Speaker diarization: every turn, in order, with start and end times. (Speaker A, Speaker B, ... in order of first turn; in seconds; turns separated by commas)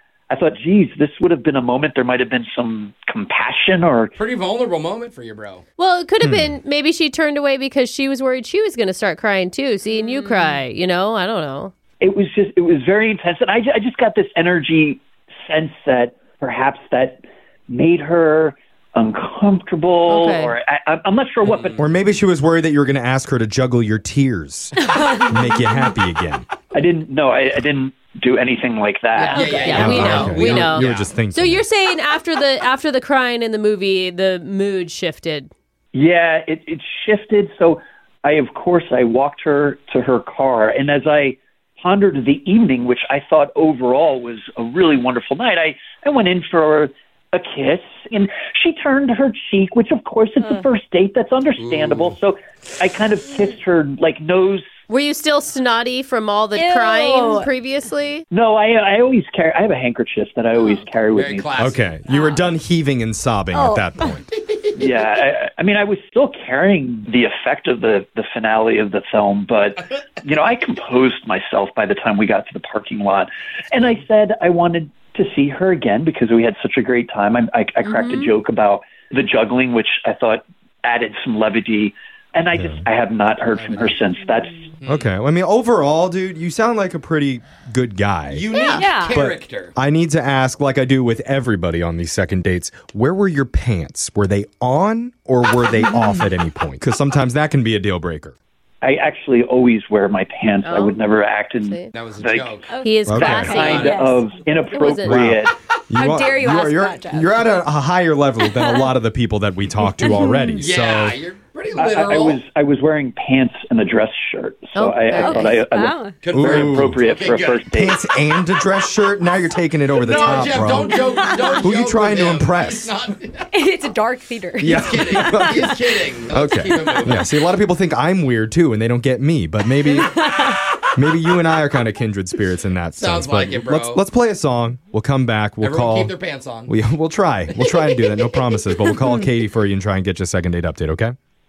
Speaker A: 0.3-4.1, Speaker B: 4.2-5.6, Speaker C: 5.8-11.7, Speaker D: 6.2-6.5, Speaker A: 12.0-21.8, Speaker C: 20.1-20.5, Speaker B: 21.4-21.8, Speaker D: 21.8-26.5, Speaker E: 24.9-25.2, Speaker A: 26.7-30.6, Speaker C: 29.1-35.5, Speaker B: 29.3-31.1, Speaker E: 29.4-29.8, Speaker D: 29.7-31.6, Speaker A: 35.9-54.6, Speaker B: 51.6-52.1, Speaker C: 54.9-58.2, Speaker E: 56.5-57.5, Speaker A: 58.3-61.5, Speaker E: 60.6-60.8, Speaker B: 61.1-62.0, Speaker D: 61.6-64.3, Speaker E: 62.1-62.4, Speaker E: 63.5-64.1, Speaker A: 64.7-84.7, Speaker C: 77.8-78.3, Speaker D: 82.5-82.8, Speaker B: 83.4-84.1, Speaker B: 84.8-85.1, Speaker D: 84.9-88.5, Speaker B: 88.3-89.7, Speaker C: 88.5-88.8, Speaker E: 88.7-89.2, Speaker D: 89.1-98.3, Speaker A: 98.8-102.6, Speaker C: 100.6-101.0, Speaker C: 101.6-101.9, Speaker B: 101.9-102.7, Speaker E: 102.7-104.2, Speaker C: 102.8-103.9, Speaker D: 103.0-103.6, Speaker A: 103.2-105.5, Speaker B: 103.6-104.1, Speaker C: 104.5-105.3, Speaker D: 105.0-111.2, Speaker E: 105.9-107.4, Speaker E: 108.4-108.9, Speaker E: 109.8-110.5, Speaker B: 110.5-112.4, Speaker A: 111.7-118.0, Speaker C: 114.7-115.5, Speaker E: 115.2-116.2, Speaker B: 116.2-117.7, Speaker D: 116.3-117.0, Speaker D: 117.7-121.0, Speaker B: 119.9-123.5, Speaker E: 120.1-121.6, Speaker D: 121.6-122.9, Speaker E: 123.5-125.8, Speaker D: 124.6-125.8, Speaker B: 124.7-127.3, Speaker D: 126.3-130.2, Speaker E: 130.0-130.5, Speaker D: 130.9-136.1, Speaker B: 132.9-134.0, Speaker B: 135.6-136.7, Speaker D: 136.7-141.1, Speaker B: 137.5-138.2